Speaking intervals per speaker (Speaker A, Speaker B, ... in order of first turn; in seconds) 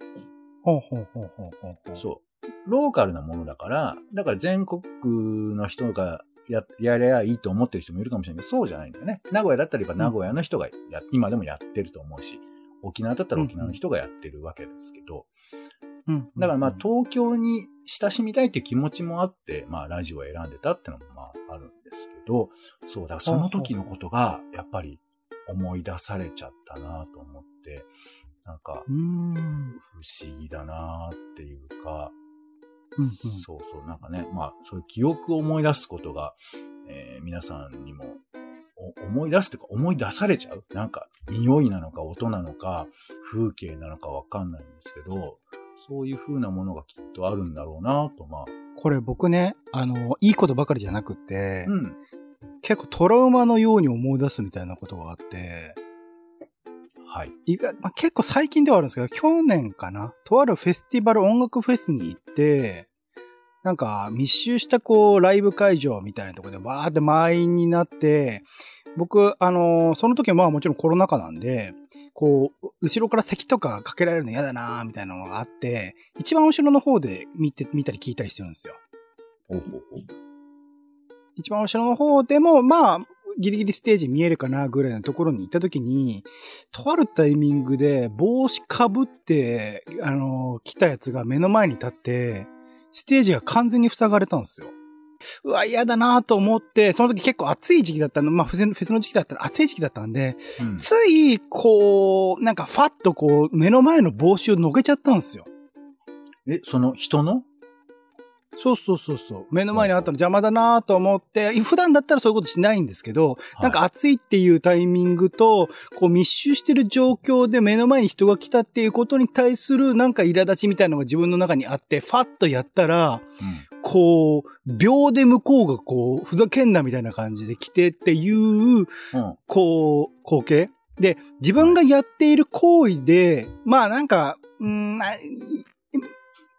Speaker A: 0.7-2.0, 13.4-13.8, 16.1-16.8, 23.3-23.7, 28.9-29.8, 33.0-33.5, 48.8-51.8, 52.6-55.8, 57.5-62.9, 63.6-78.8, 81.4-94.7, 95.3-105.5, 108.6-123.3, 123.8-136.1
Speaker B: 2.0-15.3, 16.4-27.9, 28.4-28.9, 29.8-32.1, 33.2-38.2, 38.8-48.5, 51.7-52.0, 57.0-57.3, 79.5-80.1, 100.6-100.9, 106.5-107.5, 123.4-123.7, 129.1-129.4